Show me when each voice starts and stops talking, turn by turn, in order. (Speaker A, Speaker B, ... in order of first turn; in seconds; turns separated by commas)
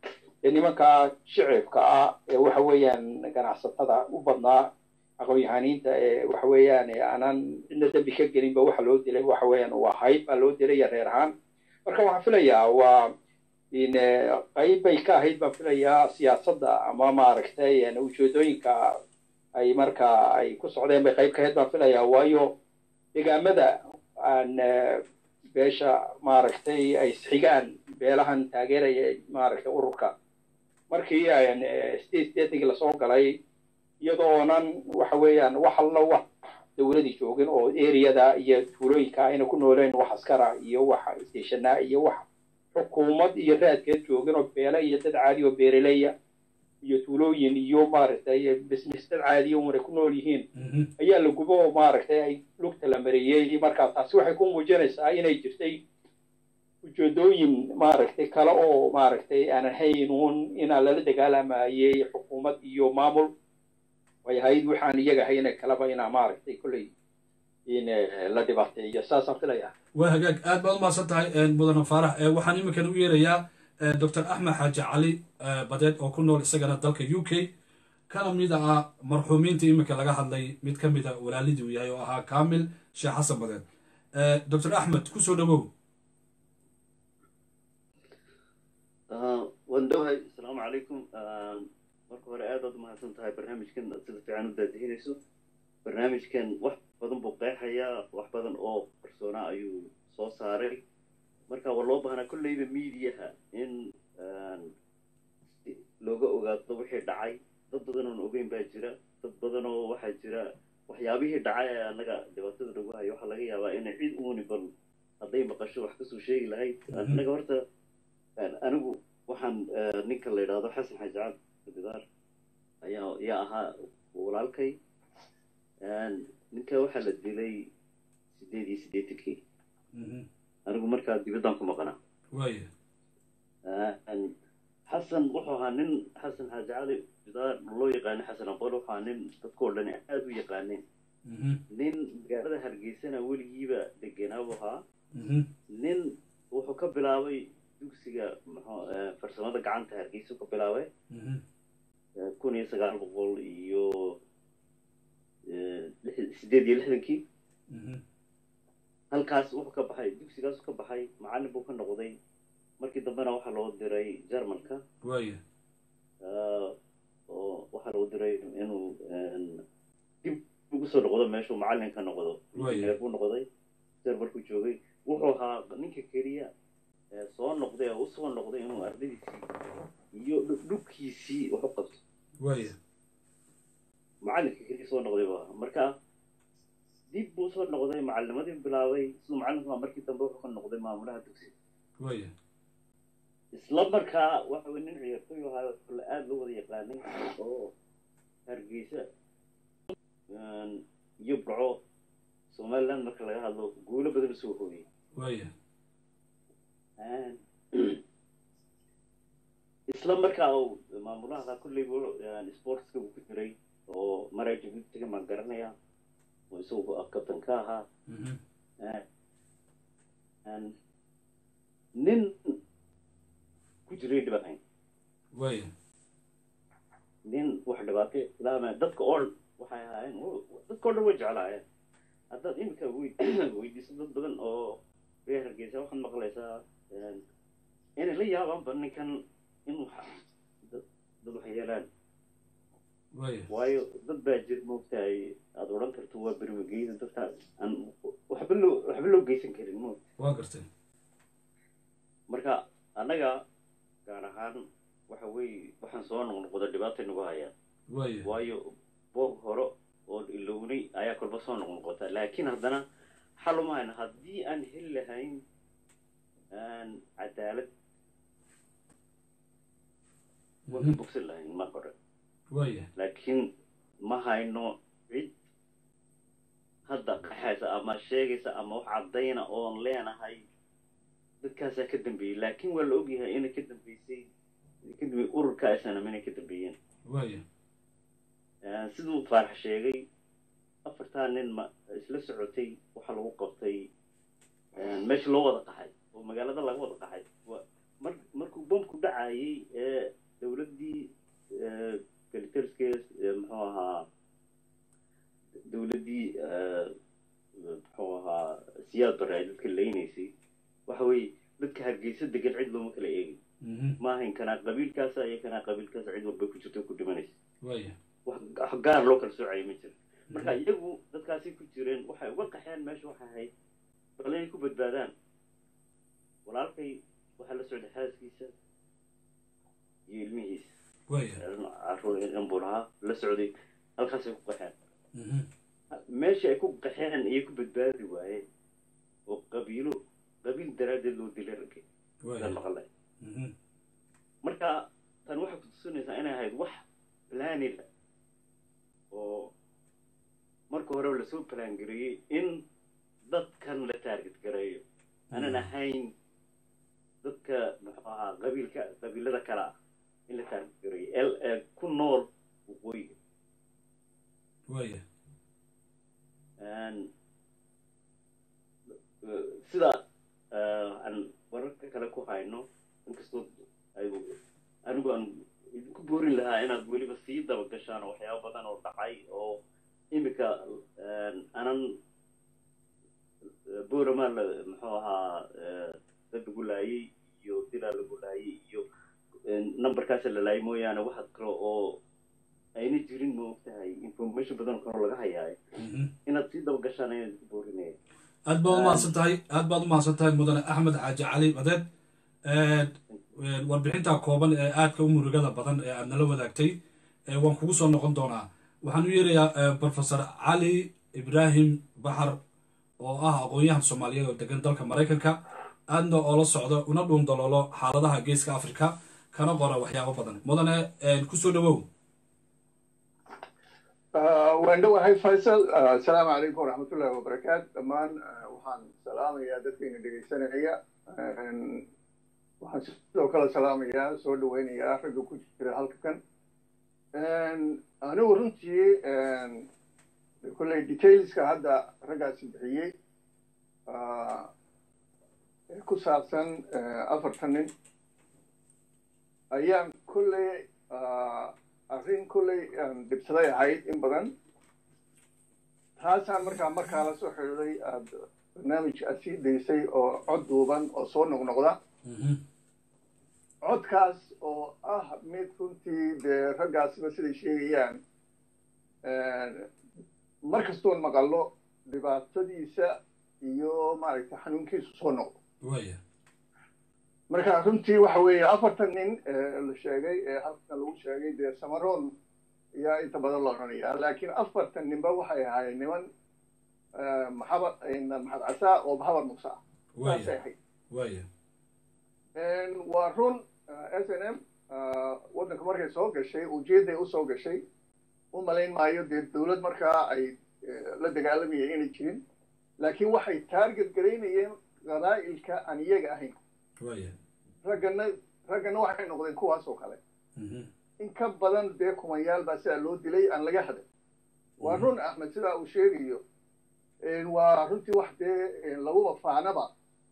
Speaker A: 0.4-4.7, Speaker A: 5.2-11.3, Speaker A: 11.8-13.0, Speaker A: 13.7-18.9, Speaker A: 19.6-22.5, Speaker A: 23.1-25.0, Speaker A: 25.5-30.1, Speaker A: 30.9-33.3, Speaker A: 34.0-42.2, Speaker A: 42.7-46.1, Speaker A: 46.8-50.5, Speaker B: 50.5-50.9, Speaker A: 51.0-55.8, Speaker A: 56.8-63.3, Speaker A: 64.2-66.9, Speaker A: 67.7-69.7, Speaker B: 69.9-77.5, Speaker B: 78.1-85.7, Speaker C: 89.1-95.2, Speaker C: 95.8-100.8, Speaker C: 101.5-104.7, Speaker C: 105.5-114.7, Speaker C: 115.2-117.6, Speaker B: 116.9-117.2, Speaker C: 118.4-122.0, Speaker C: 122.8-124.7, Speaker C: 125.8-127.6, Speaker C: 128.3-129.4, Speaker B: 129.9-130.2, Speaker C: 130.7-131.9, Speaker B: 132.3-132.7, Speaker C: 133.7-134.3, Speaker C: 134.9-140.8, Speaker B: 141.2-141.6, Speaker C: 141.7-144.8, Speaker B: 145.1-145.5, Speaker C: 145.7-150.9, Speaker B: 151.1-151.4, Speaker C: 152.2-154.2, Speaker C: 155.5-157.2, Speaker B: 157.7-158.0, Speaker C: 159.1-162.1, Speaker C: 162.8-164.8, Speaker B: 165.0-165.4, Speaker C: 166.2-166.7, Speaker C: 167.3-169.6, Speaker C: 170.2-173.4, Speaker B: 172.6-172.9, Speaker C: 174.0-176.5, Speaker C: 177.1-179.4, Speaker C: 180.1-182.0, Speaker B: 182.4-182.8, Speaker C: 184.2-185.9, Speaker C: 187.1-191.5, Speaker B: 192.0-192.3, Speaker C: 193.5-197.7, Speaker C: 198.5-199.0, Speaker C: 200.3-201.8, Speaker C: 202.5-204.8, Speaker B: 205.2-205.5, Speaker C: 207.0-208.0, Speaker C: 209.9-215.7, Speaker C: 216.5-217.8, Speaker B: 218.1-218.4, Speaker C: 220.4-220.7, Speaker C: 222.0-222.5, Speaker C: 223.9-224.6, Speaker B: 225.3-225.7, Speaker C: 227.2-231.6, Speaker C: 232.3-237.2, Speaker C: 238.0-239.1, Speaker C: 239.7-241.9, Speaker B: 243.1-243.5, Speaker C: 243.5-250.0, Speaker B: 250.2-250.7, Speaker C: 252.3-253.4, Speaker C: 254.1-257.5, Speaker B: 257.9-258.3, Speaker C: 258.2-258.6, Speaker C: 259.1-262.8, Speaker C: 263.4-265.4, Speaker C: 266.5-267.7, Speaker B: 270.7-271.0, Speaker C: 270.7-271.9, Speaker B: 272.5-272.9, Speaker C: 272.9-273.4, Speaker C: 274.1-275.3, Speaker C: 276.9-280.4, Speaker C: 281.4-284.2, Speaker C: 284.8-286.8, Speaker B: 287.1-287.4, Speaker C: 288.6-290.0, Speaker C: 290.9-293.9, Speaker C: 294.8-304.0, Speaker C: 305.7-306.9, Speaker C: 307.6-310.3, Speaker C: 310.9-313.4, Speaker B: 313.6-314.0, Speaker C: 314.0-317.3, Speaker B: 317.6-317.9, Speaker C: 318.2-323.5, Speaker C: 324.2-325.1, Speaker C: 326.4-328.5, Speaker C: 330.1-330.7, Speaker B: 331.1-331.4, Speaker C: 331.4-334.8, Speaker B: 335.1-335.4, Speaker C: 335.9-338.4, Speaker C: 339.3-341.8, Speaker B: 342.2-342.6, Speaker C: 342.4-342.9, Speaker B: 343.2-343.5, Speaker C: 344.4-347.8, Speaker C: 349.1-349.5, Speaker C: 350.7-352.6, Speaker C: 353.3-356.1, Speaker B: 355.3-355.7, Speaker C: 357.2-359.7, Speaker C: 360.3-363.1, Speaker B: 364.7-365.0, Speaker C: 366.6-367.1, Speaker C: 369.2-370.0, Speaker C: 370.5-374.3, Speaker C: 374.9-379.6, Speaker C: 380.1-381.8, Speaker C: 383.9-388.8, Speaker C: 389.5-392.0, Speaker C: 392.8-395.6, Speaker B: 395.8-396.1, Speaker C: 396.2-397.9, Speaker B: 398.5-401.8, Speaker C: 398.7-399.1, Speaker B: 402.4-406.7, Speaker B: 407.3-412.4, Speaker B: 413.0-421.8, Speaker D: 424.1-431.8, Speaker D: 432.6-436.2, Speaker D: 437.1-439.7, Speaker D: 440.4-442.9, Speaker D: 443.9-444.5, Speaker D: 445.7-447.7, Speaker D: 449.5-454.3, Speaker D: 456.0-461.8, Speaker B: 462.0-462.4, Speaker D: 463.6-468.0, Speaker D: 469.0-469.7, Speaker D: 470.4-475.3, Speaker B: 475.6-476.0, Speaker D: 477.3-482.1, Speaker D: 482.8-486.1, Speaker D: 486.9-490.5, Speaker B: 489.9-490.3, Speaker B: 490.9-491.3, Speaker D: 492.4-497.6, Speaker D: 498.3-502.2, Speaker D: 502.8-506.4, Speaker B: 506.8-507.1, Speaker D: 507.6-510.0, Speaker B: 510.4-510.7, Speaker D: 511.0-513.8, Speaker B: 514.6-514.9, Speaker D: 514.6-516.2, Speaker D: 517.0-519.7